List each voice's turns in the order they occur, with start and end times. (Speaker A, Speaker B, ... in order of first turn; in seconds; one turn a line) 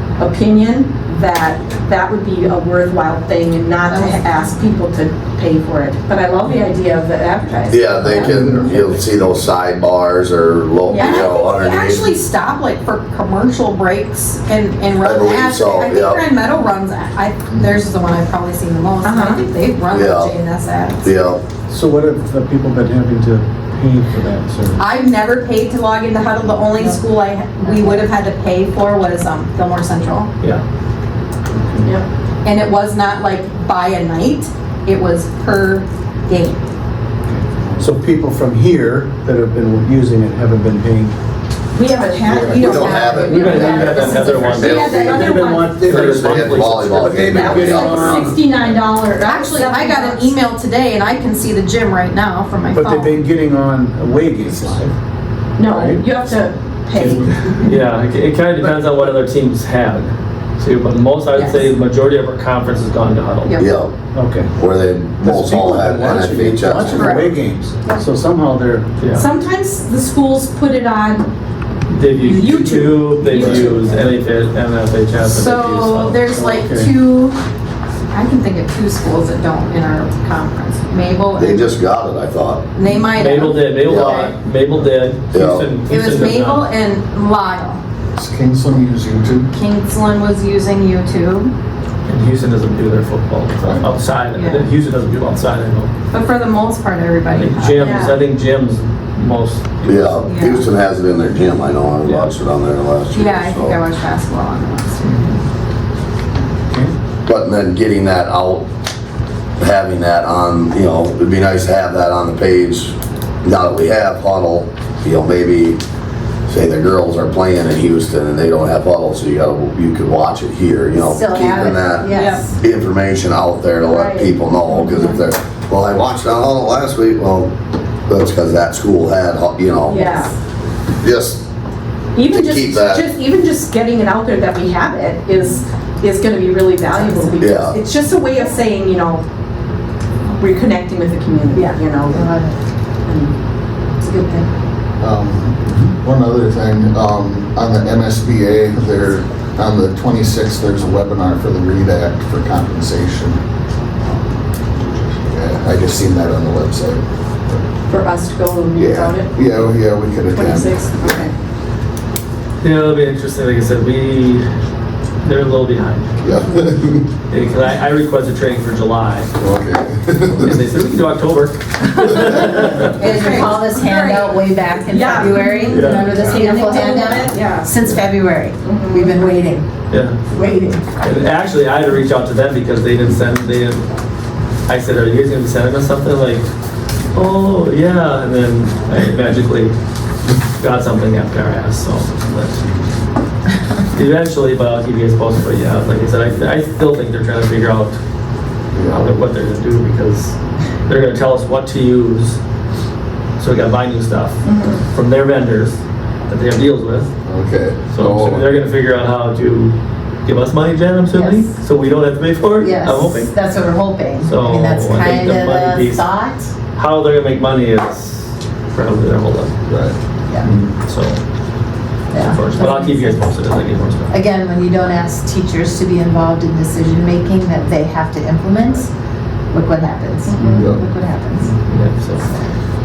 Speaker A: 0.2-7.9
Speaker B: 3.9-4.7
Speaker C: 7.7-12.2
Speaker B: 8.0-8.4
Speaker D: 8.2-8.7
Speaker A: 10.9-11.3
Speaker B: 10.9-21.1
Speaker C: 15.0-16.2
Speaker A: 19.0-19.4
Speaker C: 19.9-20.4
Speaker C: 21.0-21.4
Speaker E: 21.7-24.8
Speaker B: 24.8-30.3
Speaker F: 27.6-28.0
Speaker E: 31.5-31.9
Speaker B: 32.4-36.6
Speaker E: 37.3-41.2
Speaker A: 41.7-45.8
Speaker B: 42.2-44.6
Speaker C: 42.4-48.4
Speaker G: 43.2-45.0
Speaker E: 44.8-48.5
Speaker G: 45.8-47.2
Speaker A: 47.3-50.3
Speaker B: 49.2-53.2
Speaker E: 52.7-54.9
Speaker A: 55.6-57.5
Speaker E: 55.8-56.3
Speaker G: 57.6-63.6
Speaker B: 61.3-61.7
Speaker C: 63.6-63.9
Speaker E: 64.1-64.5
Speaker C: 64.6-67.2
Speaker E: 65.2-68.9
Speaker B: 66.8-67.4
Speaker G: 69.0-69.3
Speaker A: 69.1-71.3
Speaker G: 71.9-76.2
Speaker A: 72.3-73.9
Speaker B: 72.8-73.8
Speaker D: 73.4-73.7
Speaker B: 75.2-77.4
Speaker E: 76.3-77.0
Speaker B: 78.1-81.7
Speaker C: 81.4-82.6
Speaker B: 82.8-84.3
Speaker G: 83.2-86.7
Speaker C: 83.9-84.3
Speaker C: 85.3-85.7
Speaker B: 85.9-87.8
Speaker D: 88.2-89.5
Speaker B: 89.5-91.5
Speaker G: 92.1-95.9
Speaker B: 94.3-94.7
Speaker B: 96.1-98.1
Speaker G: 97.3-100.2
Speaker A: 97.8-98.2
Speaker C: 99.9-103.8
Speaker B: 100.3-100.7
Speaker G: 102.0-102.3
Speaker B: 103.1-105.3
Speaker C: 107.2-108.7
Speaker C: 109.6-115.8
Speaker C: 116.5-127.5
Speaker F: 121.0-122.5
Speaker A: 122.1-122.5
Speaker A: 123.9-124.3
Speaker C: 128.1-130.1
Speaker A: 129.9-130.3
Speaker C: 131.0-131.4
Speaker A: 132.1-139.2
Speaker C: 132.3-133.1
Speaker F: 137.0-137.4
Speaker C: 137.4-137.8
Speaker A: 140.4-142.3
Speaker F: 141.5-142.6
Speaker A: 143.1-143.3
Speaker F: 144.0-144.5
Speaker D: 145.0-153.4
Speaker D: 154.0-157.7
Speaker A: 157.9-159.5
Speaker D: 158.8-160.9
Speaker A: 160.3-161.3
Speaker G: 162.6-164.5
Speaker G: 165.2-166.1
Speaker D: 166.2-167.1
Speaker G: 167.3-169.3
Speaker D: 169.4-170.6
Speaker G: 170.3-173.0
Speaker F: 172.8-179.7
Speaker A: 173.0-177.7
Speaker G: 175.6-176.4
Speaker A: 178.6-179.2
Speaker G: 179.9-180.2
Speaker F: 180.3-180.8
Speaker G: 181.0-183.8
Speaker G: 184.7-186.5
Speaker G: 187.2-189.7
Speaker G: 190.6-192.6
Speaker G: 193.9-198.0
Speaker D: 198.7-199.1
Speaker G: 198.9-200.3
Speaker G: 200.9-202.4
Speaker G: 203.4-207.1
Speaker A: 204.4-204.8
Speaker D: 207.2-208.5
Speaker G: 207.9-213.4
Speaker F: 211.1-211.6
Speaker F: 212.6-216.5
Speaker G: 214.2-216.1
Speaker G: 216.8-219.6
Speaker D: 219.7-220.0
Speaker G: 220.4-221.2
Speaker F: 222.1-223.2
Speaker G: 222.2-224.2
Speaker F: 224.1-228.9
Speaker F: 229.5-231.5
Speaker A: 230.3-230.7
Speaker D: 230.4-230.9
Speaker G: 231.6-232.2
Speaker F: 232.2-232.5